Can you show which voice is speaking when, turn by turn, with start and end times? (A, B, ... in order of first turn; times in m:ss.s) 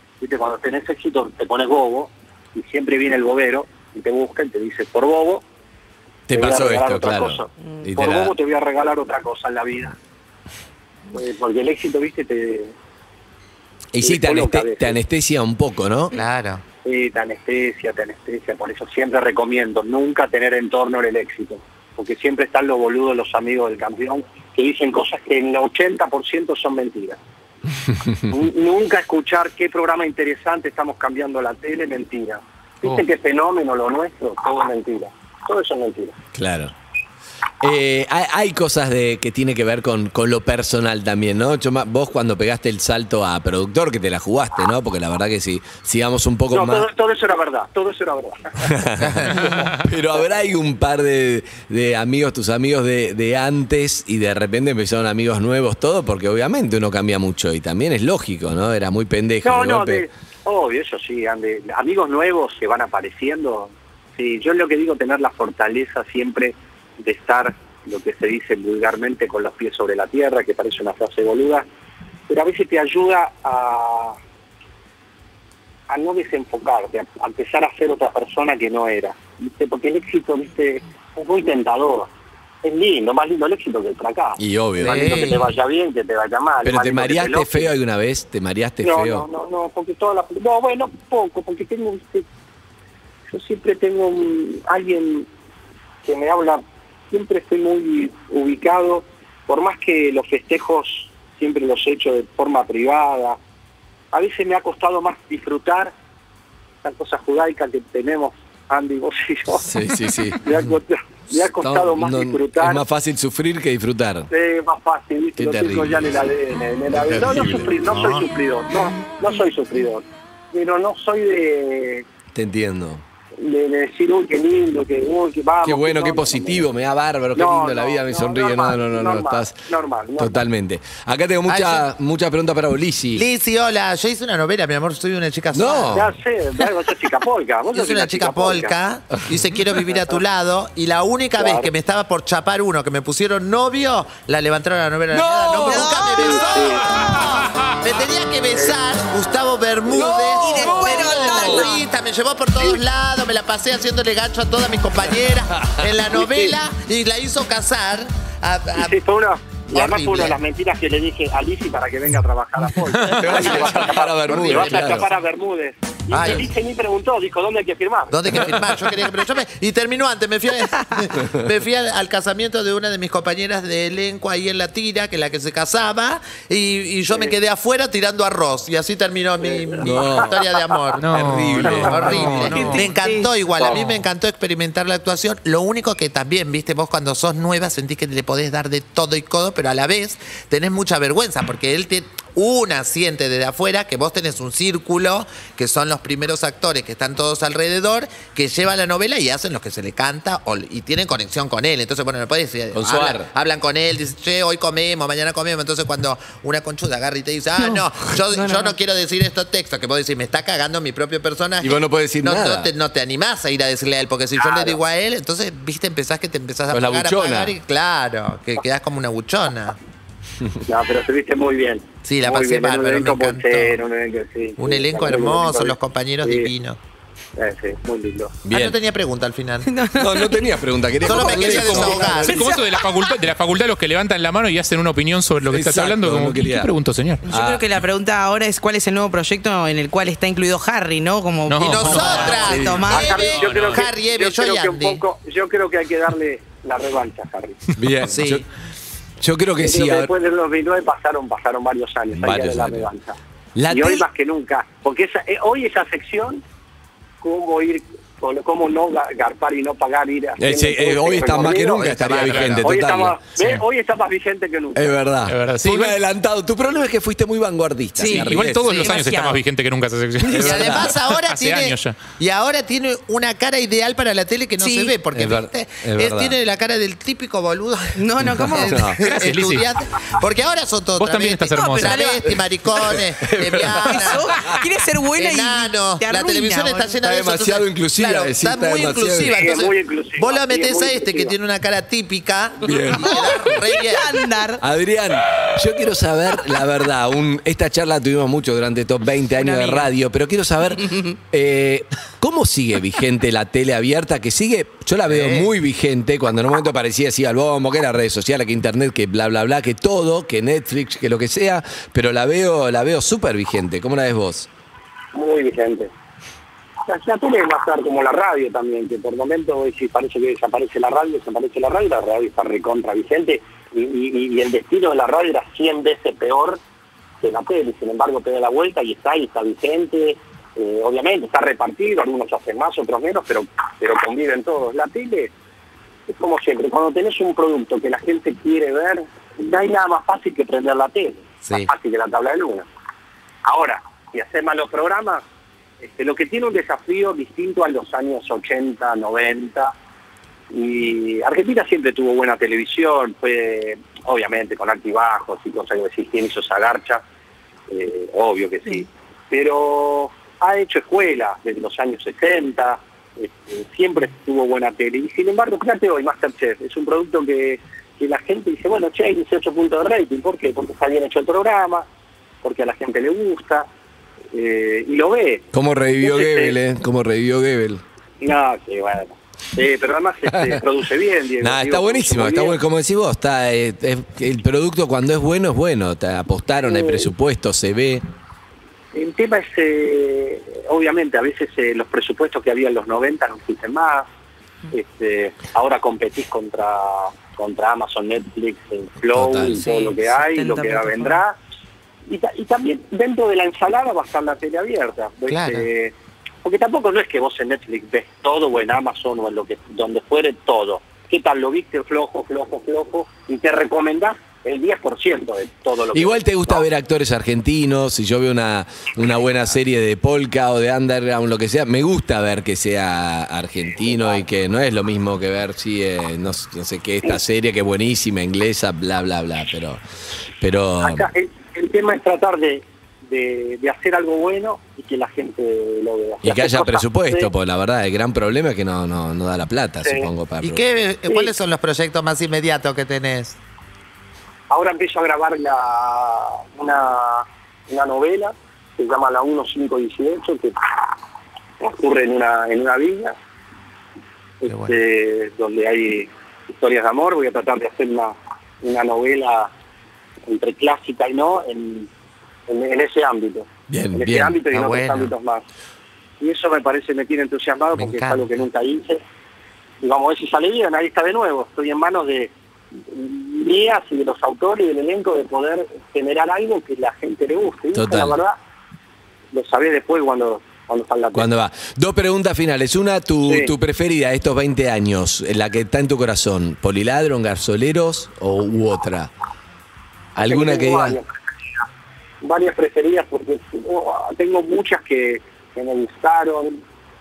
0:00.2-0:05.4 A
0:06.3-0:08.4 B
0:06.3-0:10.0 A
0:11.1-0:12.7 A
0:13.9-0:16.2 B
0:14.0-0:15.0 A
0:16.1-0:16.6 C
0:16.8-0:27.2 A
0:28.3-0:36.2 A
0:36.4-0:36.7 B
0:37.6-0:46.9 B
0:46.5-0:49.9 A
0:48.6-1:00.1 B
0:49.0-0:49.6 C
0:59.4-1:11.7 A
1:12.3-1:14.2 A
1:15.9-1:22.1 A
1:22.6-1:27.7 A
1:24.4-1:25.4 B
1:24.8-1:25.5 C
1:26.6-1:29.3 B
1:28.8-1:32.3 A
1:33.3-1:35.3 A
1:36.0-1:43.4 A
1:44.1-1:45.9 A
1:46.8-1:52.8 A
1:49.5-1:50.6 B
1:51.4-1:54.3 B
1:54.3-2:02.0 A
1:55.4-1:56.2 B
1:56.9-1:57.7 B
1:57.8-1:58.2 C
2:02.3-2:03.0 B
2:03.4-2:06.7 A
2:05.6-2:09.6 B
2:07.4-2:10.4 A
2:10.2-2:13.2 B
2:11.5-2:11.9 C
2:13.2-2:16.0 C
2:15.5-2:16.1 B
2:15.9-2:18.8 A
2:17.7-2:39.0 C
2:19.9-2:20.2 A
2:21.4-2:21.7 A
2:25.1-2:26.1 B
2:25.6-2:26.5 D
2:26.1-2:26.8 A
2:28.6-2:28.8 A
2:29.9-2:31.7 B
2:30.3-2:31.8 D
2:38.8-2:48.2 A
2:39.7-2:40.4 C
2:43.1-2:45.1 B
2:44.3-2:45.1 C
2:46.1-2:46.5 C
2:48.1-3:39.8 C
2:48.3-2:48.7 B
2:59.4-3:00.7 A
2:59.8-3:00.4 B
3:01.0-3:02.9 E
3:01.1-3:02.5 B
3:01.6-3:02.0 A
3:02.0-3:03.4 D
3:03.5-3:03.8 A
3:22.7-3:23.3 B
3:27.6-3:28.8 D
3:31.6-3:32.7 B
3:34.4-3:34.8 A
3:36.7-3:37.6 B
3:40.7-3:46.5 A
3:42.0-3:43.8 C
3:44.6-3:46.8 C
3:47.4-3:48.4 A
3:48.4-3:48.8 B
3:48.5-3:49.7 C
3:49.6-3:50.4 D
3:49.9-3:52.5 B
3:51.0-3:52.5 C
3:51.2-3:57.2 E
3:55.5-3:56.7 B
3:57.2-4:03.3 D
3:57.3-3:57.7 B
4:01.5-4:02.6 E
4:01.6-4:05.0 C
4:02.4-4:02.8 B
4:02.9-4:07.6 A
4:03.3-4:03.9 E
4:07.8-4:08.5 B
4:08.0-4:08.4 C
4:09.2-4:10.1 B
4:09.6-4:13.2 A
4:12.1-4:12.9 B
4:13.6-4:14.0 B
4:13.7-4:16.4 A
4:17.2-4:22.0 A
4:20.4-4:23.2 B
4:21.3-4:22.6 C
4:22.0-4:22.6 E
4:22.6-4:25.0 A
4:23.4-4:23.6 E
4:24.8-4:28.8 B
4:25.3-4:26.0 E
4:28.0-4:29.4 D
4:28.1-4:32.0 E
4:30.3-4:44.5 C
4:30.3-4:30.9 B
4:34.6-4:35.0 D
4:35.1-4:36.4 B
4:38.0-4:38.8 D
4:38.3-4:39.0 B
4:39.0-4:39.7 E
4:41.0-4:42.0 E
4:41.5-4:43.1 D
4:43.2-4:44.6 B
4:43.6-4:47.0 D
4:45.1-4:54.3 C
4:47.0-4:49.4 B
4:49.3-4:51.4 A
4:52.6-4:53.4 B
4:52.8-4:54.6 D
4:54.6-5:14.5 B
4:59.4-4:59.9 D
5:05.1-5:05.5 C
5:15.1-5:15.9 A
5:16.9-5:26.6 A
5:27.2-5:35.3 A
5:36.1-5:42.7 A
5:43.4-5:45.2 A
5:45.8-5:49.7 A
5:50.5-5:57.0 A
5:57.7-6:11.9 A
6:12.4-6:13.7 A
6:14.3-6:15.4 A
6:15.5-6:17.8 B
6:16.0-6:16.6 A
6:18.2-6:22.6 A
6:20.3-6:20.6 B
6:21.4-6:28.0 B
6:26.7-6:27.1 A
6:28.9-6:34.1 A
6:34.7-6:41.4 A
6:39.1-6:39.7 B
6:39.6-6:41.2 D
6:42.1-6:56.6 A
6:45.3-6:45.6 C
6:55.9-7:09.8 B
7:03.7-7:04.3 A
7:10.4-7:11.1 B
7:10.8-7:17.3 A
7:16.2-7:20.6 B
7:19.8-7:20.1 A
7:20.4-7:23.4 C
7:21.1-7:21.3 A
7:24.5-7:30.6 A
7:31.6-7:33.2 A
7:34.4-7:39.5 A
7:34.5-7:34.7 C
7:40.3-7:41.9 A
7:42.5-7:45.4 A
7:43.7-7:44.4 B
7:44.5-7:45.1 C
7:46.2-7:49.0 A
7:47.8-7:48.3 C
7:49.8-7:52.3 A
7:52.9-7:58.4 A
7:57.7-7:58.2 B
7:59.3-8:01.3 A
8:01.1-8:09.1 B
8:03.3-8:03.5 A
8:10.2-8:11.0 B
8:10.2-8:11.2 A
8:12.2-8:16.6 A